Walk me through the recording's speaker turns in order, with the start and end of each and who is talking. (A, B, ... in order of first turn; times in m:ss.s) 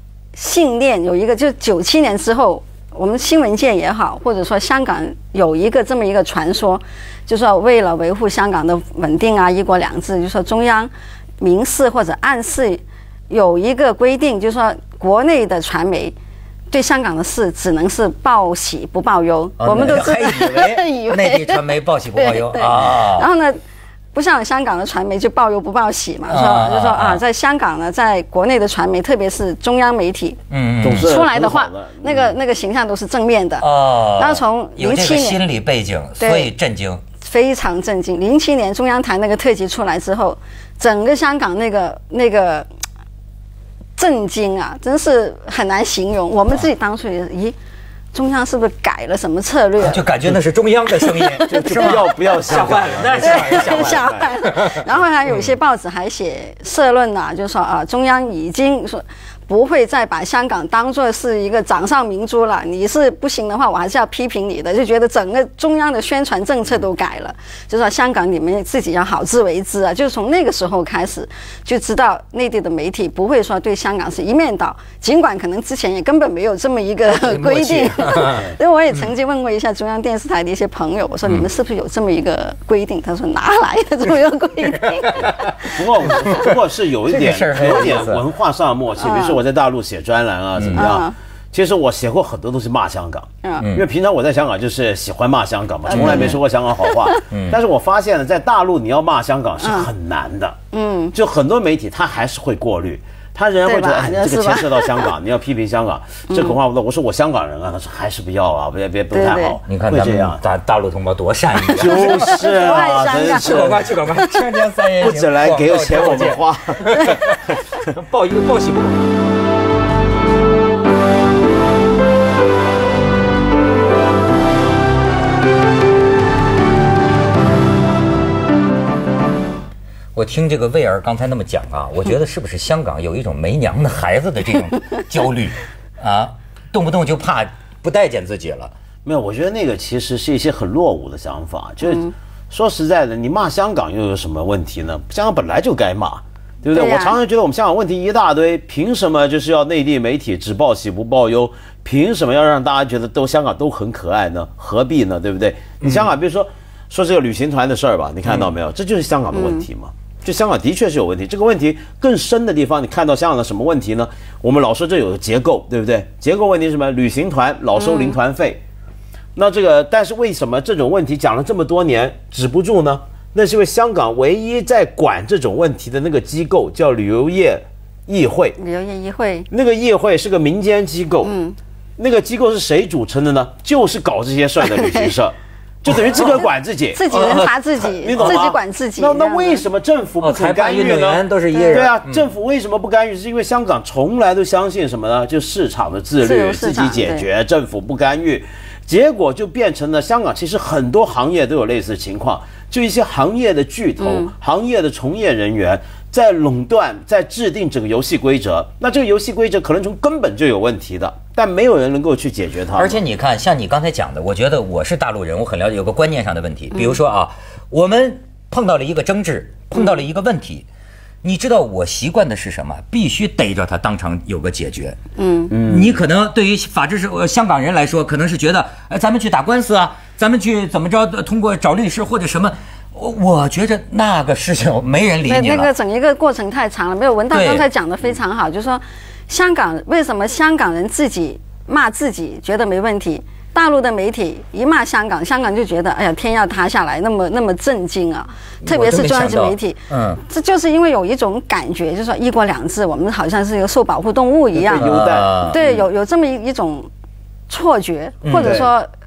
0:00.4-0:16.2 A
0:16.7-0:23.6 A
0:19.6-0:23.3 B
0:24.1-0:30.4 A
0:26.3-0:27.2 B
0:30.5-0:31.1 B
0:30.8-0:32.4 C
0:31.0-0:35.4 A
0:33.6-0:37.0 B
0:36.2-0:36.5 A
0:37.2-0:42.7 A
0:44.0-0:47.6 A
0:48.1-0:50.1 A
0:49.8-0:55.5 B
0:51.1-0:52.0 A
0:51.5-0:54.3 C
0:53.2-1:26.2 A
1:17.1-1:18.5 B
1:25.2-1:40.6 C
1:26.0-1:28.3 B
1:29.0-1:29.4 A
1:30.6-1:31.0 B
1:30.8-1:31.2 A
1:33.4-1:33.7 A
1:33.6-1:33.9 B
1:35.9-1:36.4 A
1:35.9-1:36.4 B
1:37.3-1:37.6 B
1:39.6-1:39.9 A
1:40.7-1:41.2 A
1:41.1-1:50.4 C
1:43.6-1:45.1 A
1:46.3-1:46.6 A
1:49.1-1:49.6 A
1:49.7-1:52.4 B
1:51.7-1:53.9 C
1:51.8-1:54.2 A
1:53.3-1:59.0 B
1:55.0-1:57.0 C
2:10.2-2:18.7 B
2:19.0-2:48.6 C
2:21.8-2:22.1 A
2:26.7-2:27.2 A
2:35.8-2:36.1 B
2:38.2-2:38.6 B
2:39.3-2:39.6 A
2:47.8-2:48.2 A
2:49.4-2:58.6 C
2:58.6-2:59.5 A
2:59.5-3:01.3 C
3:01.2-3:01.6 A
3:02.0-3:07.1 C
3:04.7-3:05.1 A
3:07.0-3:09.6 A
3:07.1-3:08.4 B
3:07.9-3:33.0 C
3:10.2-3:12.3 B
3:11.6-3:11.9 A
3:16.2-3:17.3 A
3:24.0-3:24.3 A
3:32.7-3:40.7 B
3:41.2-3:45.0 B
3:45.2-3:45.5 A
3:45.5-3:46.0 C
3:45.5-3:55.7 B
3:55.2-4:16.9 A
3:57.3-3:57.6 B
4:08.6-4:10.2 B
4:14.5-4:15.9 C
4:14.7-4:15.6 B
4:17.5-4:18.9 A
4:18.2-4:18.6 B
4:18.4-4:18.7 C